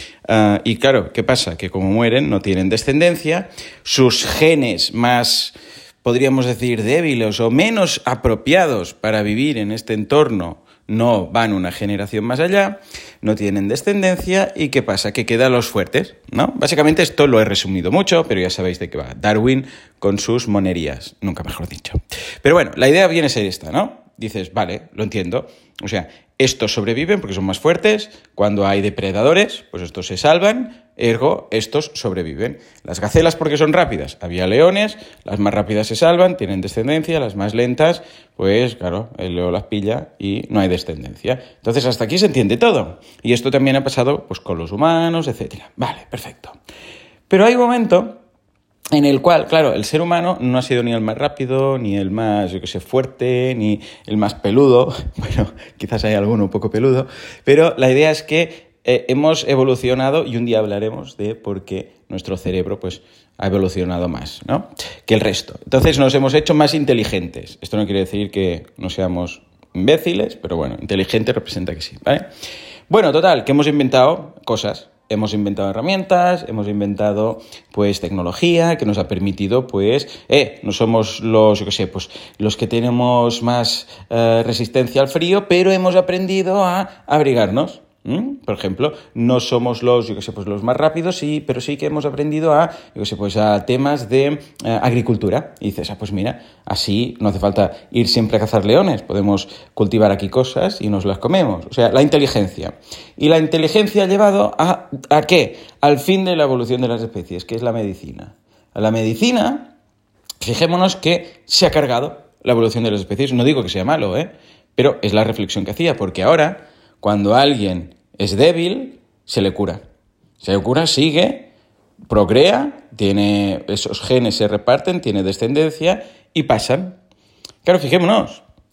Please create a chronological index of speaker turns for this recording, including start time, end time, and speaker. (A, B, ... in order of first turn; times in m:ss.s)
0:00.3-0:46.6 A
0:47.3-0:48.2 A
0:48.9-1:12.3 A
1:12.9-1:49.7 A
1:50.4-1:59.8 A
2:00.4-2:01.5 A
2:02.1-2:07.0 A
2:07.6-2:08.4 A